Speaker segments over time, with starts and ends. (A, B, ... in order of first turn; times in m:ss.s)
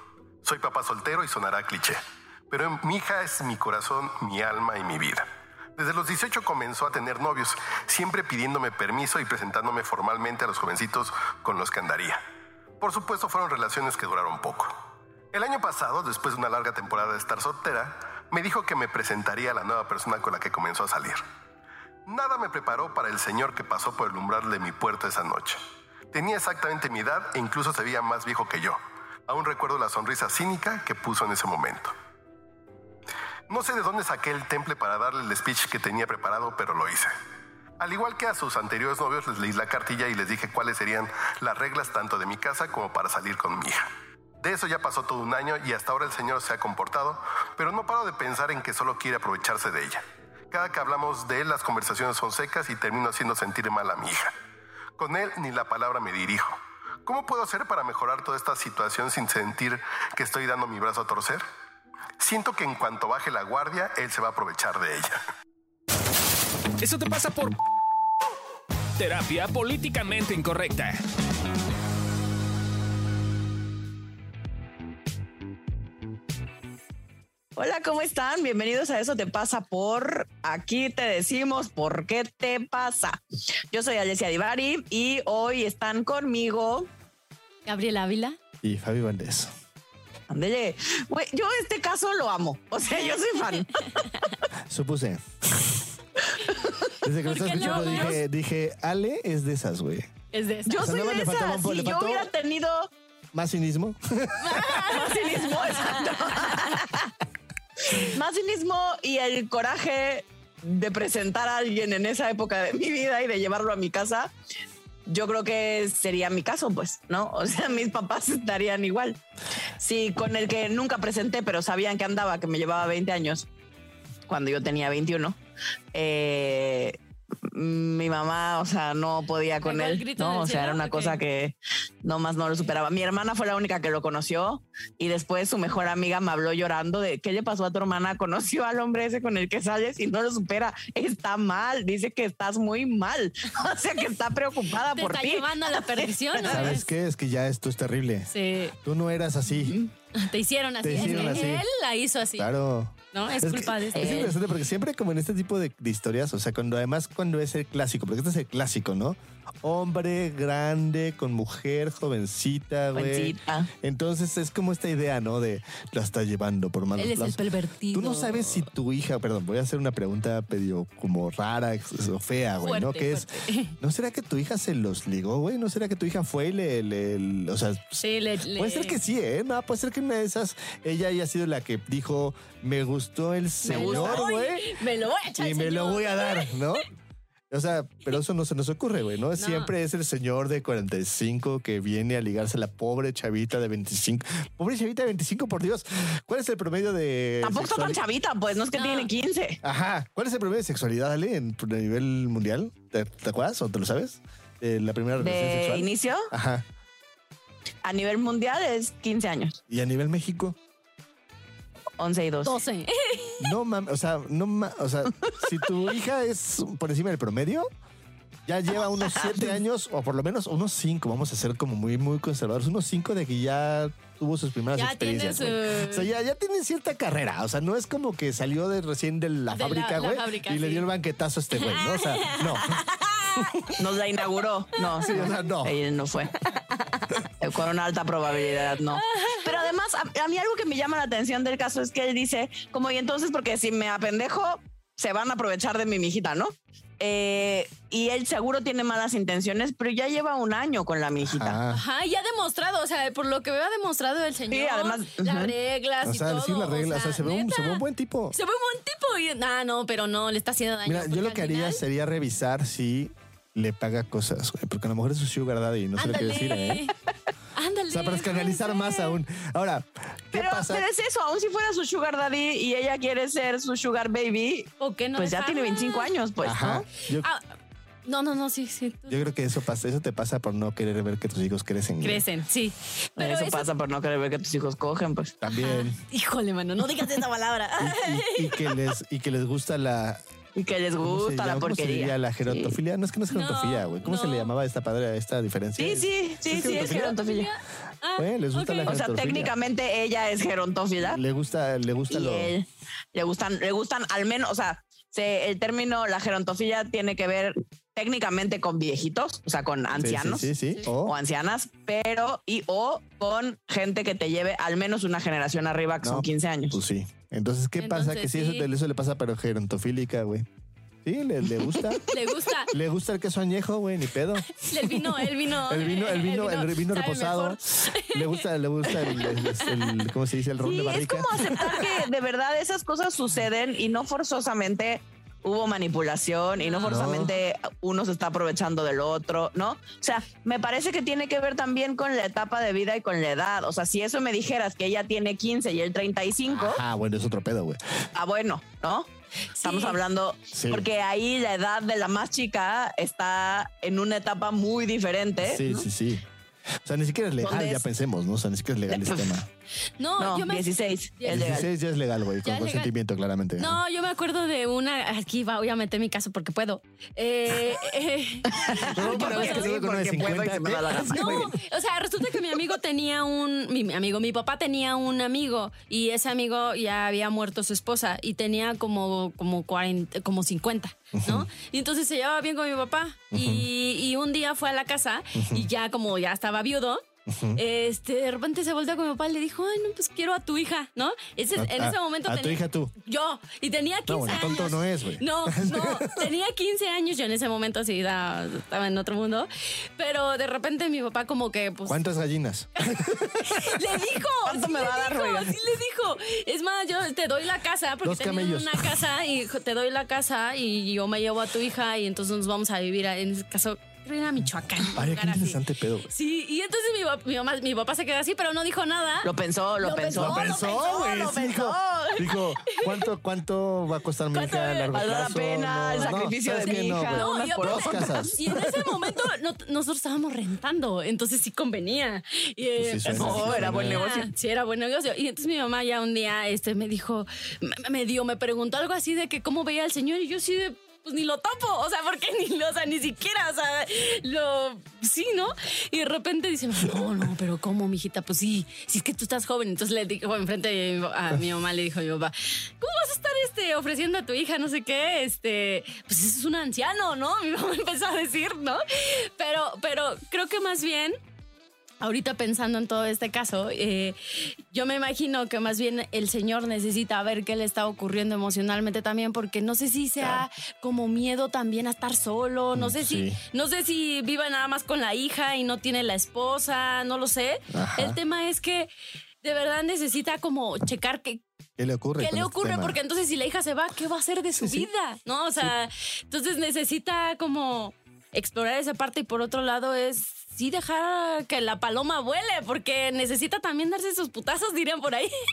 0:00.4-0:01.8 A
0:02.5-0:05.2 A
0:05.8-0:12.2 A
0:12.8-0:14.7 A
0:15.3-0:21.2 A
0:22.1-0:25.6 A
0:26.1-0:28.8 A
0:29.3-0:31.9 A
0:33.5-0:37.1 A
0:37.8-0:43.8 A
0:44.4-0:50.0 A
0:50.5-0:54.3 A
0:55.0-0:56.5 A
0:57.0-1:01.4 A
1:02.2-1:05.1 A
1:06.8-1:07.5 B
1:09.0-1:11.0 B
1:17.6-1:26.9 C
1:27.6-1:28.4 D
1:28.6-1:29.5 E
1:30.3-1:34.0 C
1:34.7-1:35.8 E
1:37.0-1:40.1 E
1:37.2-1:38.2 D
1:40.3-1:41.0 D
1:40.7-1:42.9 C
1:40.8-1:42.3 E
1:43.3-1:45.0 E
1:44.4-1:46.5 D
1:44.9-1:47.1 C
1:48.0-1:54.3 C
1:55.0-1:59.2 C
1:59.8-2:03.4 C
2:04.3-2:05.4 C
2:05.9-2:07.0 C
2:07.5-2:26.7 C
2:09.6-2:11.2 D
2:24.9-2:26.9 D
2:26.4-2:29.8 E
2:28.3-2:28.7 D
2:30.1-2:32.5 D
2:30.8-2:31.6 E
2:32.4-2:47.4 E
2:33.1-2:34.4 D
2:33.9-2:34.4 C
2:42.9-2:43.7 C
2:47.0-2:48.7 D
2:47.9-3:04.7 E
2:52.6-2:53.8 D
2:58.0-2:59.0 D
3:03.6-3:06.8 D
3:03.6-3:04.3 C
3:05.4-3:06.8 E
3:07.5-3:18.0 E
3:09.4-3:09.7 D
3:17.4-3:19.6 C
3:18.8-3:19.1 D
3:19.6-3:26.6 E
3:25.2-3:26.3 C
3:27.8-3:29.6 C
3:29.7-3:30.6 E
3:32.0-3:32.6 C
3:32.4-3:33.5 D
3:33.4-3:37.7 E
3:38.4-3:52.8 E
3:44.7-3:46.1 D
3:49.5-3:50.9 D
3:51.5-3:53.8 D
3:53.4-3:53.7 E
3:53.8-3:56.3 C
3:55.0-3:55.7 E
3:56.6-3:57.2 D
3:57.4-4:11.6 C
3:58.9-3:59.7 D
4:11.2-4:11.8 E
4:11.7-4:21.8 D
4:14.5-4:15.5 C
4:16.0-4:18.4 E
4:20.8-4:26.8 E
4:26.0-4:26.9 D
4:27.5-4:29.2 D
4:27.9-4:30.8 E
4:30.3-4:36.9 C
4:34.8-4:36.1 D
4:36.4-4:37.3 E
4:38.0-4:39.3 D
4:39.1-4:42.2 E
4:42.0-4:43.7 D
4:43.2-4:45.4 C
4:45.4-4:46.0 E
4:45.5-4:48.8 D
4:47.8-4:50.2 E
4:50.6-4:52.8 C
4:51.0-4:57.2 E
4:53.3-4:54.5 D
4:55.8-4:57.5 C
4:56.6-4:59.0 D
4:58.2-4:59.5 E
4:58.8-5:01.2 C
5:01.0-5:02.5 E
5:02.1-5:16.8 C
5:09.9-5:11.1 E
5:16.0-5:20.5 E
5:17.8-5:18.7 D
5:21.0-5:22.1 E
5:22.0-5:22.7 D
5:22.7-5:31.8 E
5:24.5-5:30.1 D
5:30.6-5:46.8 C
5:31.4-5:32.0 D
5:36.6-5:37.1 D
5:36.8-5:37.4 E
5:46.5-5:47.8 E
5:48.1-5:49.1 C
5:49.5-5:50.0 D
5:49.6-5:55.8 C
5:50.5-5:50.8 E
5:55.4-5:56.2 E
5:56.8-5:59.5 E
5:57.4-5:57.8 C
5:58.9-5:59.4 C
6:00.0-6:01.6 D
6:00.2-6:01.7 C
6:01.3-6:03.8 E
6:02.4-6:02.9 D
6:03.6-6:09.8 D
6:08.6-6:11.5 C
6:08.8-6:11.5 E
6:11.1-6:42.0 D
6:21.1-6:21.5 E
6:23.3-6:23.6 E
6:25.4-6:25.7 E
6:27.3-6:27.6 E
6:31.6-6:32.9 E
6:34.1-6:36.2 E
6:41.8-6:43.8 E
6:43.0-7:01.6 D
6:44.4-6:45.6 C
6:48.0-6:49.0 E
6:54.9-6:56.1 E
6:59.2-7:02.2 C
7:00.1-7:09.1 E
7:02.2-7:03.0 D
7:04.3-7:05.3 D
7:04.9-7:08.4 C
7:05.9-7:41.2 D
7:12.8-7:14.0 E
7:13.1-7:14.3 C
7:42.0-7:58.9 D
7:50.2-7:50.4 E
7:52.7-7:53.4 E
7:57.7-7:58.2 E
7:59.4-8:01.4 D
8:01.8-8:03.0 E
8:02.2-8:15.3 D
8:04.6-8:04.9 E